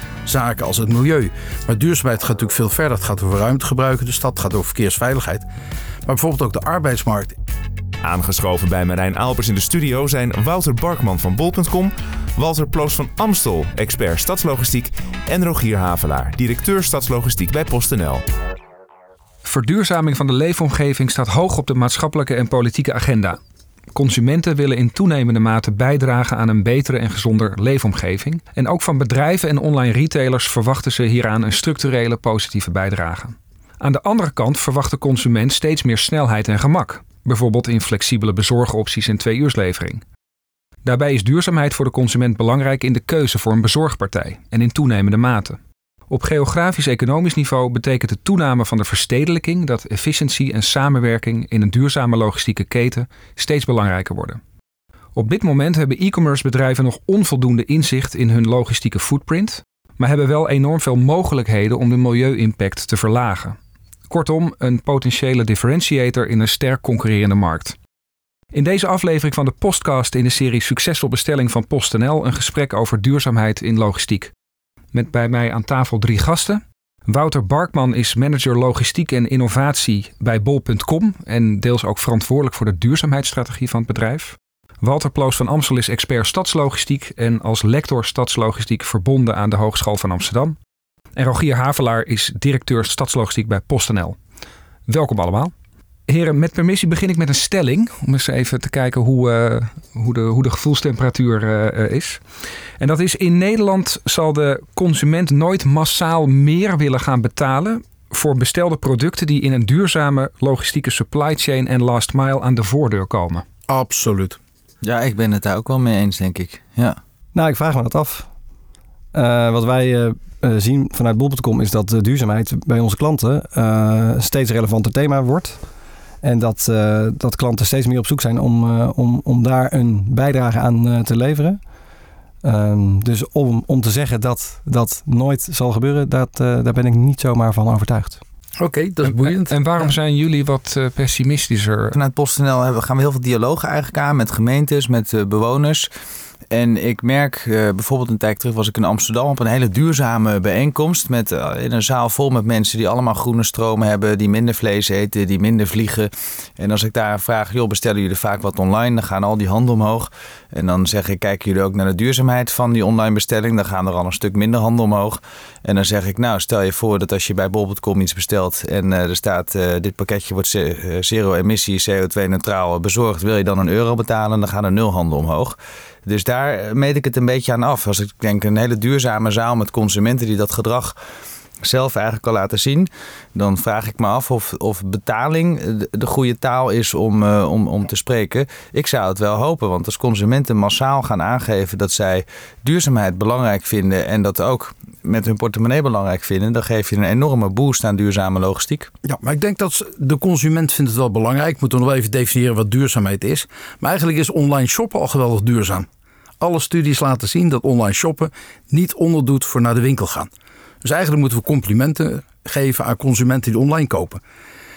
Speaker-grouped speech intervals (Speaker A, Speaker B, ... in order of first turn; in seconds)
Speaker A: 0.2-5.5, 6.1-7.4, 113.7-114.4, 138.6-139.6, 199.1-205.9, 206.4-210.3, 210.8-214.2
Speaker B: 8.0-18.2
Speaker C: 19.4-23.4, 23.9-40.0, 40.8-45.6, 46.1-54.4, 55.1-63.6, 64.1-67.8, 68.5-74.3, 74.9-90.6, 91.2-94.2, 94.9-95.5, 96.1-102.2, 102.8-113.5, 139.2-141.9
Speaker D: 114.8-117.0, 141.9-145.9, 146.5-180.9, 181.6-198.9
Speaker E: 117.3-118.3, 119.1-125.6, 126.2-131.6, 132.4-138.2